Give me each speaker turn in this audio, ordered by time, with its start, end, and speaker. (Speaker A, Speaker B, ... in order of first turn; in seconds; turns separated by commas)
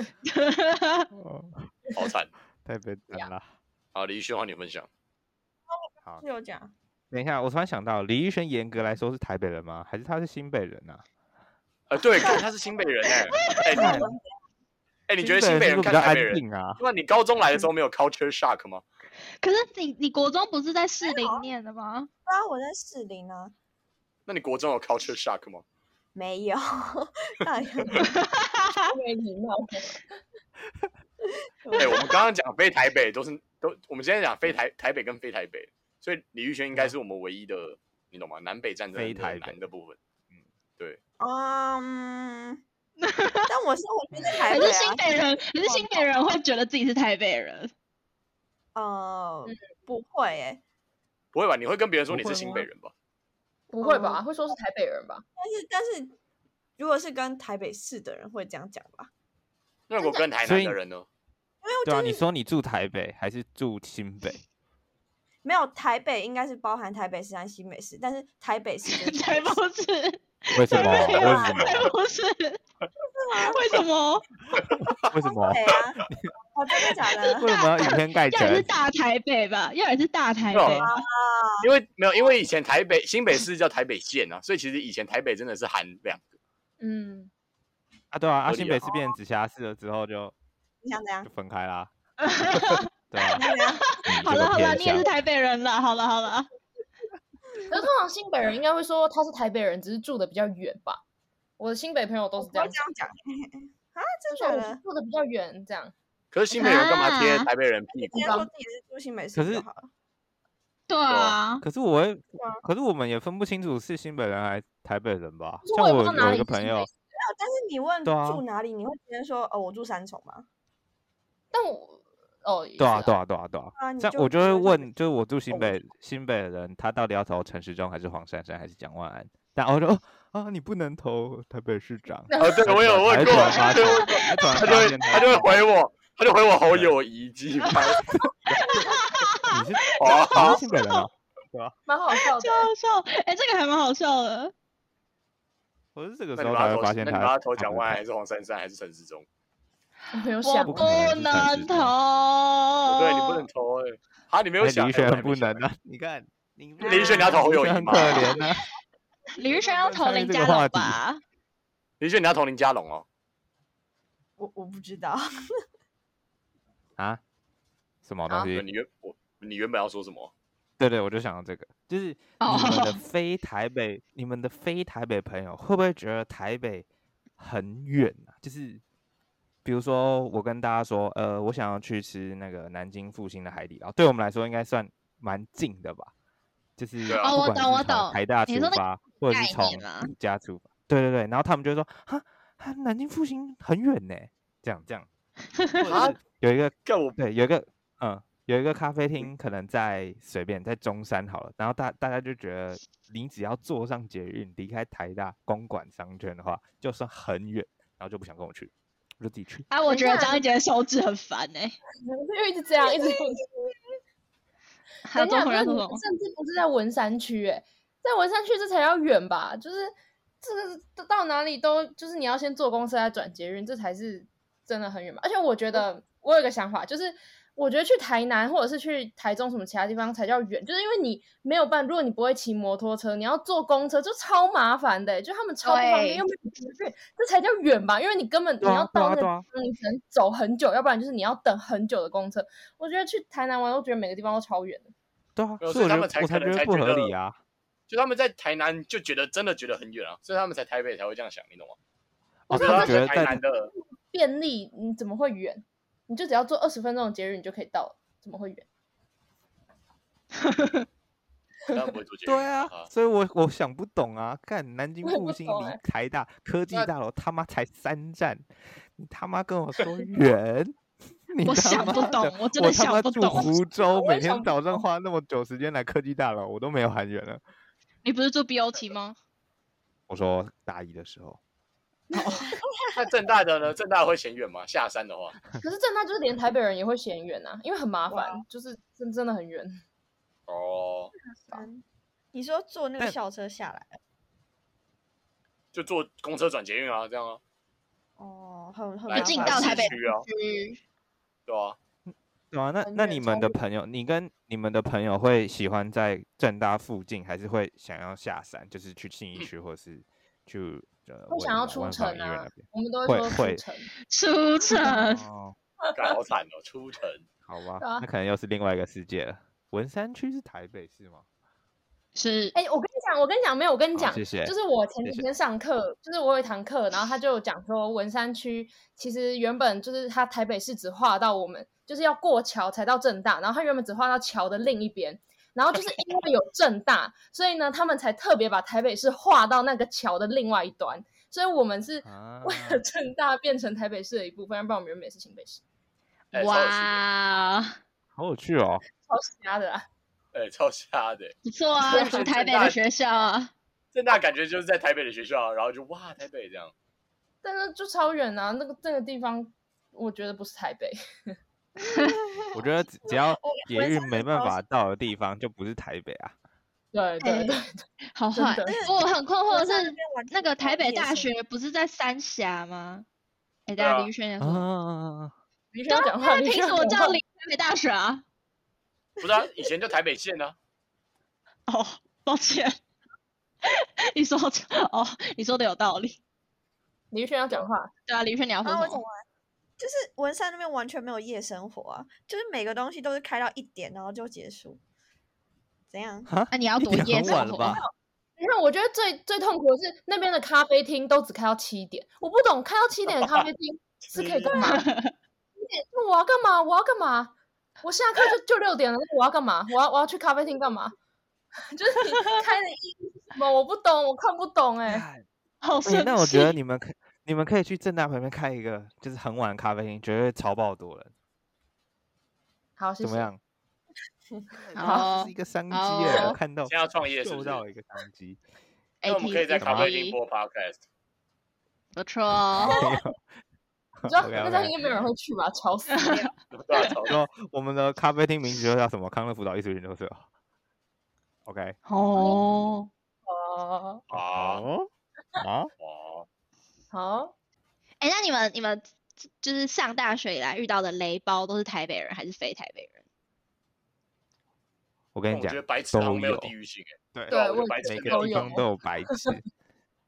Speaker A: 0.3-1.1, Speaker B: 1.1-1.7, Speaker C: 1.9-2.3, Speaker B: 2.6-3.5, Speaker C: 3.9-4.9, Speaker D: 6.2-6.7, Speaker B: 7.1-11.0, Speaker C: 11.9-14.0, Speaker A: 13.4-13.9, Speaker D: 13.7-14.2, Speaker B: 13.7-14.1, Speaker C: 15.1-18.8, Speaker B: 15.2-16.8, Speaker A: 19.4-22.1, Speaker D: 21.0-21.5, Speaker D: 22.2-23.5, Speaker C: 24.3-25.6, Speaker D: 26.1-28.1, Speaker A: 28.0-28.9, Speaker E: 28.9-30.0, Speaker D: 31.6-32.2, Speaker C: 31.8-40.0, Speaker B: 38.9-39.6, Speaker D: 41.2-42.6, Speaker A: 43.0-43.5, Speaker D: 43.5-46.3, Speaker B: 44.1-44.4, Speaker A: 44.5-47.7, Speaker D: 48.7-50.6, Speaker C: 51.3-52.9, Speaker B: 52.1-52.6, Speaker E: 53.7-55.2, Speaker D: 53.8-54.2, Speaker D: 55.4-56.1, Speaker D: 56.8-59.1, Speaker C: 59.9-61.1, Speaker B: 60.4-60.8, Speaker D: 61.6-62.2, Speaker B: 61.8-64.4, Speaker D: 65.4-69.6, Speaker A: 68.9-72.6, Speaker B: 70.5-71.9, Speaker D: 70.7-71.8, Speaker D: 73.1-73.6, Speaker A: 73.4-74.3, Speaker C: 74.5-75.0, Speaker B: 75.0-76.3, Speaker D: 75.3-76.0, Speaker D: 76.5-77.5, Speaker A: 77.2-81.0, Speaker B: 77.4-78.7, Speaker C: 80.5-80.9, Speaker D: 80.7-81.7, Speaker C: 81.6-86.3, Speaker E: 86.8-87.3, Speaker B: 88.1-90.3, Speaker C: 88.5-88.9, Speaker D: 90.8-91.3, Speaker B: 91.2-91.9, Speaker A: 92.3-96.5, Speaker B: 93.1-93.4, Speaker D: 93.3-93.9, Speaker B: 94.0-95.1, Speaker E: 97.7-101.0, Speaker E: 101.6-102.8, Speaker D: 102.4-104.8, Speaker E: 104.3-105.9, Speaker C: 106.3-108.3, Speaker A: 106.5-107.5, Speaker D: 107.9-109.9, Speaker E: 108.1-108.5, Speaker B: 109.3-109.6, Speaker A: 110.9-111.6, Speaker B: 111.6-116.9, Speaker D: 112.4-112.6, Speaker E: 115.6-116.9, Speaker D: 117.2-120.5, Speaker B: 118.0-118.4, Speaker E: 121.5-123.2, Speaker B: 122.8-135.6, Speaker D: 123.8-124.9, Speaker E: 132.3-132.7, Speaker C: 132.4-138.1, Speaker E: 133.2-133.8, Speaker B: 136.7-136.9, Speaker B: 138.5-138.8, Speaker A: 138.6-141.0, Speaker B: 139.5-141.8, Speaker C: 140.0-140.6, Speaker E: 141.8-142.7, Speaker A: 142.2-144.5, Speaker B: 145.9-148.0, Speaker C: 146.3-149.3, Speaker E: 150.1-150.9, Speaker A: 150.4-153.4, Speaker B: 150.7-151.9, Speaker C: 152.9-155.6, Speaker B: 154.6-158.6, Speaker C: 156.8-158.3, Speaker A: 156.8-158.4, Speaker A: 159.3-161.2, Speaker B: 159.9-161.0, Speaker C: 162.0-163.0, Speaker D: 164.4-165.2, Speaker B: 168.0-168.7, Speaker C: 168.5-170.3, Speaker B: 170.8-176.8, Speaker A: 172.4-173.0, Speaker B: 177.4-178.8, Speaker B: 179.6-186.1, Speaker B: 186.8-195.1, Speaker C: 187.1-187.4, Speaker A: 187.1-190.1, Speaker A: 195.6-195.8, Speaker B: 195.8-209.7, Speaker C: 195.8-196.2, Speaker C: 196.8-197.2, Speaker A: 209.7-211.8, Speaker E: 209.9-210.4, Speaker E: 212.1-213.4, Speaker D: 213.0-213.4, Speaker A: 215.1-216.0, Speaker E: 215.2-244.9, Speaker A: 235.6-236.2, Speaker B: 238.6-239.4, Speaker B: 245.3-247.3, Speaker C: 245.6-247.1, Speaker C: 247.9-251.8, Speaker B: 252.5-253.4, Speaker E: 252.5-258.6, Speaker C: 252.5-253.7, Speaker A: 260.4-260.8, Speaker C: 261.7-262.9, Speaker B: 262.2-268.4, Speaker E: 265.0-265.8, Speaker B: 269.0-270.8, Speaker B: 271.3-277.4, Speaker A: 271.4-273.5, Speaker E: 273.9-274.8, Speaker A: 278.0-279.1, Speaker B: 280.1-281.4, Speaker E: 282.1-282.6, Speaker C: 282.9-285.4, Speaker E: 285.6-289.8, Speaker D: 288.1-288.4, Speaker C: 290.5-291.1, Speaker D: 291.5-294.0, Speaker C: 295.7-297.4, Speaker D: 298.2-299.9, Speaker C: 299.1-300.3, Speaker A: 299.1-300.8, Speaker E: 299.4-299.7, Speaker C: 301.5-301.8, Speaker B: 302.1-313.6, Speaker E: 302.8-303.6, Speaker E: 311.3-313.9, Speaker A: 314.1-315.2, Speaker E: 314.7-314.9, Speaker B: 314.9-315.5, Speaker E: 315.9-316.1, Speaker C: 315.9-317.2, Speaker B: 317.4-321.2, Speaker E: 317.8-318.1, Speaker A: 322.1-322.5, Speaker E: 322.5-345.6, Speaker B: 323.9-325.2, Speaker B: 342.0-342.8, Speaker C: 346.3-347.0, Speaker A: 346.3-347.8, Speaker B: 348.1-348.8, Speaker E: 349.1-349.9, Speaker C: 350.3-352.8, Speaker A: 351.4-353.5, Speaker E: 351.9-352.2, Speaker C: 353.9-356.7, Speaker E: 357.4-361.3, Speaker D: 361.8-364.6, Speaker B: 362.5-366.3, Speaker E: 366.9-367.7, Speaker A: 367.2-367.6, Speaker A: 368.1-373.0, Speaker E: 368.3-368.8, Speaker D: 368.6-371.3, Speaker A: 373.7-374.7, Speaker C: 373.8-374.1, Speaker B: 374.4-375.3, Speaker E: 375.7-377.2, Speaker A: 375.9-378.2, Speaker C: 379.2-380.6, Speaker A: 381.7-382.8, Speaker A: 383.6-386.2, Speaker E: 387.1-387.9, Speaker A: 388.1-389.0, Speaker D: 388.6-389.2, Speaker D: 389.8-394.8, Speaker D: 395.9-396.3, Speaker B: 396.3-397.8, Speaker A: 396.5-397.8, Speaker D: 397.2-397.9, Speaker E: 398.4-404.9, Speaker C: 404.0-404.6, Speaker A: 404.6-405.1, Speaker E: 405.6-410.9, Speaker E: 411.7-415.0, Speaker B: 414.9-415.2, Speaker A: 415.6-416.5, Speaker B: 415.8-421.1, Speaker E: 422.8-423.3, Speaker B: 423.0-423.4, Speaker B: 424.6-428.4, Speaker A: 424.8-426.4, Speaker E: 424.8-425.1, Speaker E: 426.1-426.4, Speaker C: 426.6-427.6, Speaker A: 429.0-430.2, Speaker C: 429.0-430.8, Speaker B: 429.6-429.9, Speaker A: 431.9-432.9, Speaker E: 432.6-432.9, Speaker B: 432.6-433.2, Speaker B: 434.0-434.8, Speaker E: 434.0-436.3, Speaker A: 436.0-436.2, Speaker C: 436.5-437.2, Speaker B: 437.1-440.2, Speaker B: 441.4-441.8, Speaker A: 441.9-442.9, Speaker E: 442.1-442.4, Speaker E: 443.2-444.0, Speaker C: 444.1-444.6, Speaker B: 444.3-445.7, Speaker C: 445.8-446.3, Speaker E: 446.9-447.3, Speaker A: 448.0-448.9, Speaker A: 449.4-453.0, Speaker B: 455.1-456.5, Speaker C: 455.3-458.6, Speaker B: 457.1-459.4, Speaker E: 457.3-458.6